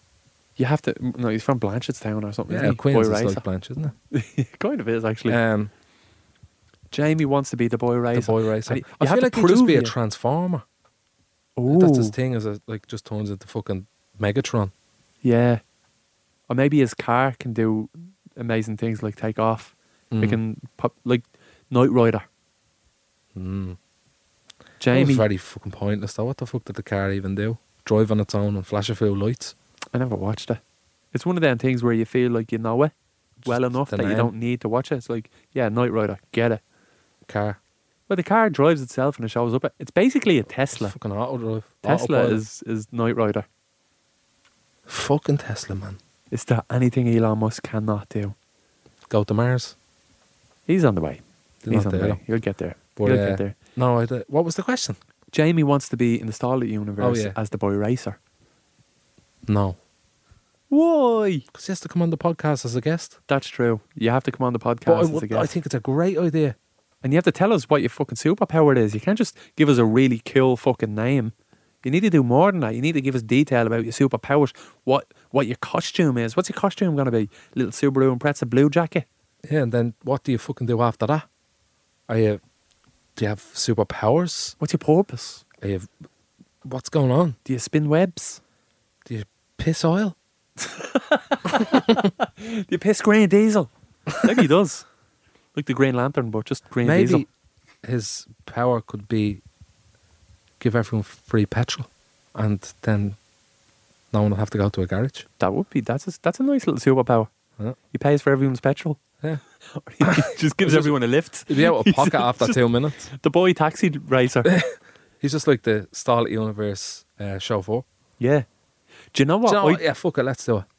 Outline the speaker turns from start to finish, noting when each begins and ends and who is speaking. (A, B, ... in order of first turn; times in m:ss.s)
0:00.6-0:03.4 A
0:02.5-0:03.9 B
0:04.1-0:05.4 A
0:05.3-0:05.7 B
0:06.9-0:09.9 A
0:08.1-0:10.6 B
0:11.6-0:12.2 A
0:11.7-0:14.7 B
0:15.2-0:15.6 A
0:16.5-0:22.2 A
0:20.1-0:20.4 B
0:23.4-0:23.8 B
0:24.8-0:25.2 A
0:24.9-0:29.5 B
0:29.9-0:30.6 A
0:31.1-0:36.6 A
0:33.4-0:34.3 B
0:37.3-0:37.6 B
0:38.1-0:41.0 A
0:40.7-0:42.4 B
0:41.8-0:43.4 A
0:44.9-0:46.0 B
0:46.3-0:48.4 A
0:49.1-0:49.8 B
0:50.7-0:53.5 A
0:51.6-0:52.2 B
0:53.0-0:55.0 B
0:55.3-0:58.2 A
0:57.0-0:57.4 B
0:59.4-0:59.8 B
1:00.7-1:01.4 A
1:01.5-1:03.2 B
1:03.3-1:05.5 A
1:04.9-1:06.6 B
1:07.0-1:19.0 A
1:19.4-1:21.2 B
1:22.1-1:22.4 B
1:23.2-1:24.6 B
1:24.6-1:25.4 A
1:25.6-1:25.9 B
1:26.6-1:27.4 B
1:27.4-1:28.4 A
1:29.0-1:30.2 B
1:30.6-1:34.9 A
1:35.5-1:37.2 A
1:36.8-1:37.3 B
1:37.8-1:39.4 B
1:40.6-1:43.2 B
1:44.1-1:45.2 B
1:45.4-1:47.3 A
1:47.9-1:49.0 A
1:49.7-1:54.5 A
1:50.0-1:50.9 B
1:51.5-1:53.1 B
1:54.4-1:57.8 B
1:58.2-1:58.4 A
1:59.1-1:59.8 A
1:59.4-2:00.6 B